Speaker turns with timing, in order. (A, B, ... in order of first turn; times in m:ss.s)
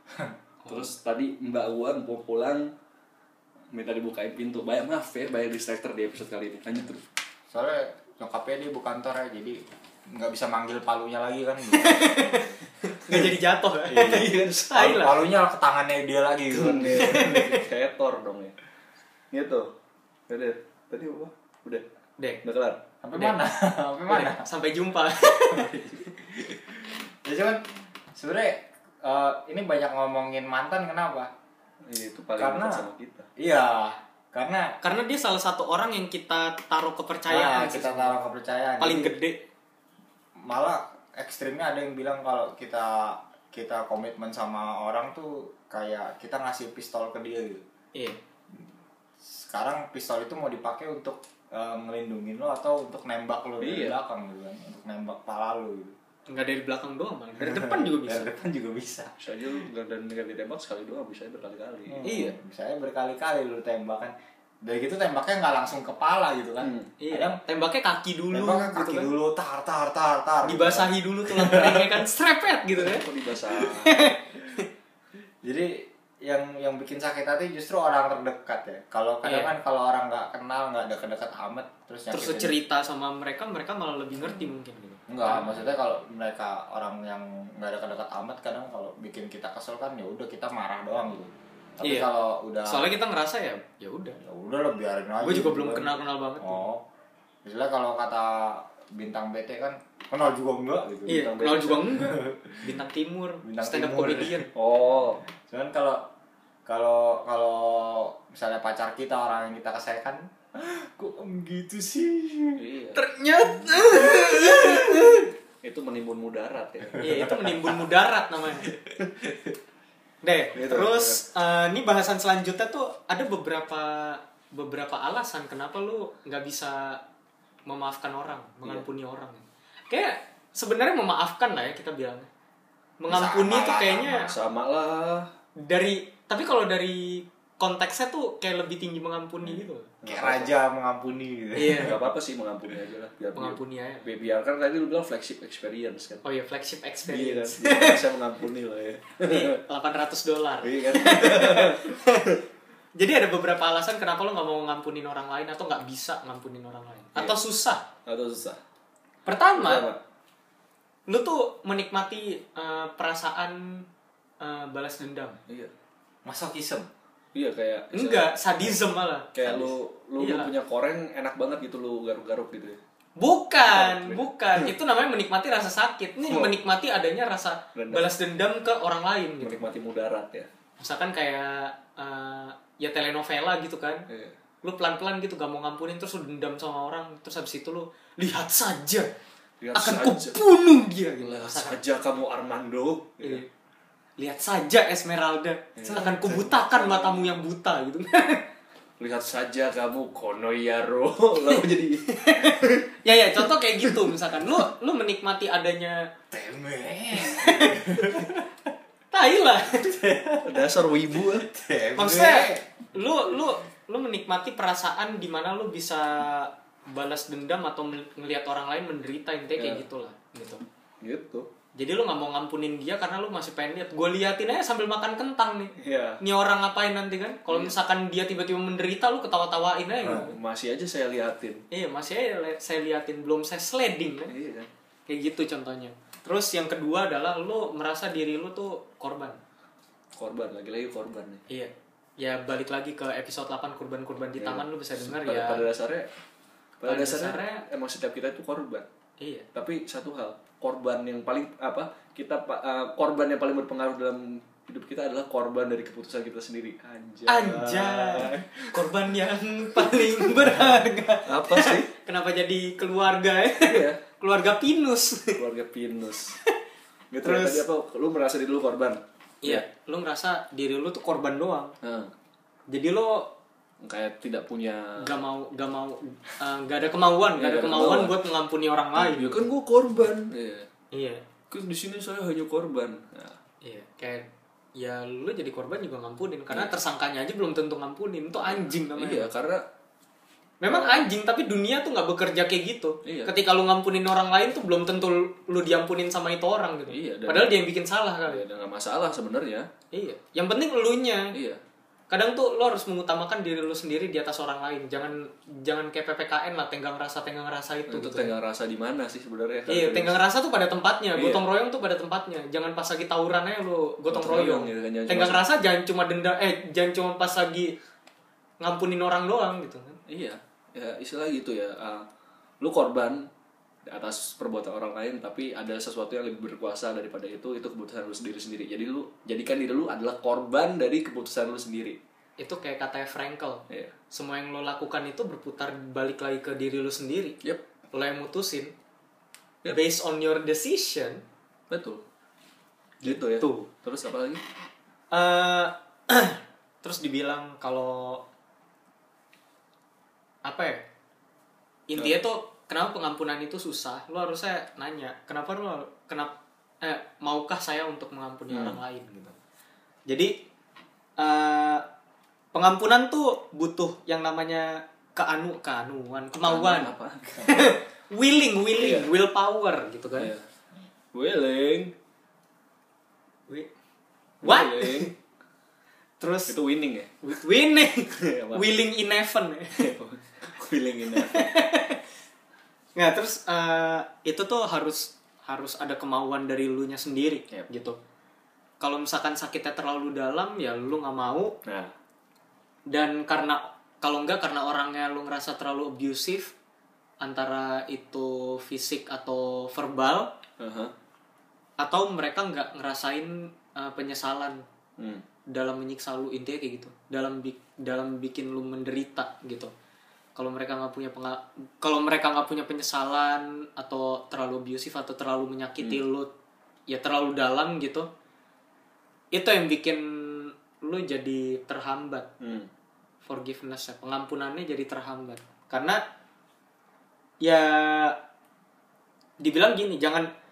0:00.6-0:00.9 A
0:00.7-0:02.7 B
0:03.7-0:07.0 B
0:07.5-0:12.6 C
0:11.7-0:15.2 A
0:13.9-0:17.6 C
0:14.0-0:15.0 B
0:16.5-0:18.5 B
0:17.0-0:17.6 A
0:19.3-0:19.7 B
0:20.3-0:21.8 B
0:22.4-0:22.8 B
0:23.0-0:24.4 C
0:24.1-0:26.1 A
0:25.5-0:27.6 C
0:28.1-0:31.3 C
0:31.9-0:33.3 B
0:32.4-0:34.8 C
0:34.8-0:38.1 A
0:37.3-0:39.1 C
0:38.8-0:39.4 A
0:40.4-0:47.6 C
0:49.2-0:56.0 C
0:53.6-0:54.0 B
0:56.3-0:58.3 A
0:57.4-0:59.6 C
0:59.2-1:02.0 B
1:01.9-1:07.4 C
1:02.0-1:02.4 A
1:06.6-1:06.9 B
1:07.0-1:09.1 A
1:08.3-1:12.1 C
1:10.4-1:13.1 A
1:12.8-1:14.0 B
1:13.6-1:14.7 A
1:15.4-1:22.5 C
1:19.2-1:19.6 A
1:22.1-1:25.6 A
1:24.2-1:24.5 C
1:25.1-1:32.9 C
1:31.8-1:32.1 A
1:32.7-1:34.2 A
1:34.2-1:36.8 C
1:35.2-1:36.6 A
1:37.4-1:42.7 C
1:41.1-1:44.5 A
1:41.1-1:41.9 B
1:43.4-1:44.5 C
1:44.6-1:45.2 B
1:45.4-1:46.1 C
1:46.7-1:52.6 C
1:52.6-1:53.0 B
1:53.0-1:55.3 A
1:53.7-1:54.6 C
1:55.1-1:57.3 B
1:56.9-1:57.8 C
1:57.0-1:58.7 A
1:59.0-1:59.3 B
2:00.2-2:07.0 A
2:00.6-2:01.2 B
2:07.7-2:12.3 A
2:13.0-2:14.3 A
2:13.1-2:14.3 C
2:14.1-2:15.3 B
2:15.6-2:19.9 A
2:20.0-2:20.5 B
2:20.1-2:22.1 C
2:21.6-2:22.0 A
2:21.8-2:26.2 B
2:23.4-2:24.1 A
2:26.2-2:28.0 A
2:27.1-2:29.6 B
2:29.3-2:32.4 A
2:30.6-2:32.1 B
2:33.0-2:37.9 A
2:38.0-2:38.6 B
2:39.3-2:39.9 A
2:39.6-2:40.0 B
2:41.1-2:43.9 A
2:44.4-2:45.4 A
2:46.3-2:46.9 C
2:47.3-2:48.8 B
2:47.9-2:50.5 A
2:49.3-2:52.8 B
2:53.2-2:59.7 A
2:53.7-2:54.7 B
2:56.3-2:56.6 B
2:57.8-2:58.1 B
2:59.4-3:00.5 B
3:00.8-3:04.1 A
3:04.1-3:04.4 B
3:04.6-3:09.1 A
3:09.6-3:10.4 B
3:09.8-3:11.8 A
3:11.2-3:13.4 B
3:13.2-3:13.5 A
3:14.2-3:18.4 A
3:15.8-3:17.4 B
3:19.0-3:22.8 B
3:21.5-3:26.1 A
3:23.8-3:24.2 B
3:26.3-3:28.5 C
3:27.2-3:28.3 A
3:29.1-3:29.9 A
3:29.7-3:32.7 C
3:30.4-3:31.5 B
3:32.0-3:40.6 A
3:39.6-3:39.8 B
3:41.0-3:41.5 B
3:41.8-3:50.4 A
3:45.8-3:46.2 B
3:47.5-3:47.8 B
3:50.0-3:51.6 B
3:51.7-3:54.3 A
3:54.3-3:54.7 B
3:55.1-3:59.4 A
4:00.2-4:01.4 B
4:01.5-4:05.7 A
4:04.4-4:06.1 B
4:06.8-4:08.9 B
4:06.8-4:07.6 A
4:09.2-4:09.5 A
4:09.5-4:18.9 B
4:17.3-4:25.4 A
4:19.8-4:20.6 B
4:21.3-4:21.9 B
4:23.6-4:24.0 B
4:25.4-4:26.4 B
4:27.1-4:29.6 B
4:27.2-4:27.6 A
4:29.4-4:31.7 A
4:31.8-4:32.1 B
4:32.7-4:33.3 A
4:33.8-4:35.0 B
4:35.0-4:39.4 A
4:37.4-4:38.2 B
4:39.0-4:40.7 B
4:40.9-4:41.2 A
4:41.5-4:43.4 B
4:43.6-4:49.3 A
4:48.4-4:49.6 B
4:50.6-4:58.4 A
4:50.7-4:51.0 B
4:53.0-4:53.3 B
4:56.9-4:57.6 B
4:58.3-4:59.7 B
4:59.9-5:01.3 A
5:01.3-5:01.6 B
5:02.1-5:08.3 A
5:07.9-5:10.2 B
5:09.7-5:17.7 A
5:11.2-5:11.4 B
5:14.1-5:15.5 B
5:18.6-5:20.0 A
5:20.1-5:22.1 B
5:22.6-5:23.3 B
5:23.9-5:32.0 B
5:32.4-5:37.4 A
5:37.9-5:38.7 A
5:39.7-5:41.2 A
5:41.7-5:42.0 B
5:43.0-5:43.7 A
5:43.0-5:44.4 B
5:45.1-5:48.2 A
5:50.4-5:50.8 A
5:51.9-5:59.4 A
5:58.5-5:58.8 B
6:00.1-6:00.4 A
6:01.2-6:01.8 A
6:02.5-6:10.3 A
6:06.4-6:07.4 B
6:08.8-6:09.1 B
6:10.2-6:10.4 B
6:11.1-6:11.9 B
6:14.4-6:15.1 A
6:14.4-6:15.1 B
6:16.2-6:16.6 A
6:16.5-6:17.1 B
6:17.2-6:19.8 A
6:18.1-6:18.8 B
6:19.8-6:21.5 B
6:21.1-6:22.0 A
6:23.0-6:28.0 A
6:28.8-6:31.6 A
6:31.7-6:31.9 B
6:32.9-6:36.6 A
6:37.2-6:40.3 A
6:40.6-6:40.9 B
6:41.8-6:44.6 A
6:45.0-6:45.2 B
6:45.5-6:49.7 A
6:50.4-6:56.3 A
6:56.9-6:58.1 A
6:59.3-7:02.3 A
7:02.4-7:02.7 B
7:03.2-7:06.0 A
7:07.4-7:08.2 A
7:09.4-7:10.3 A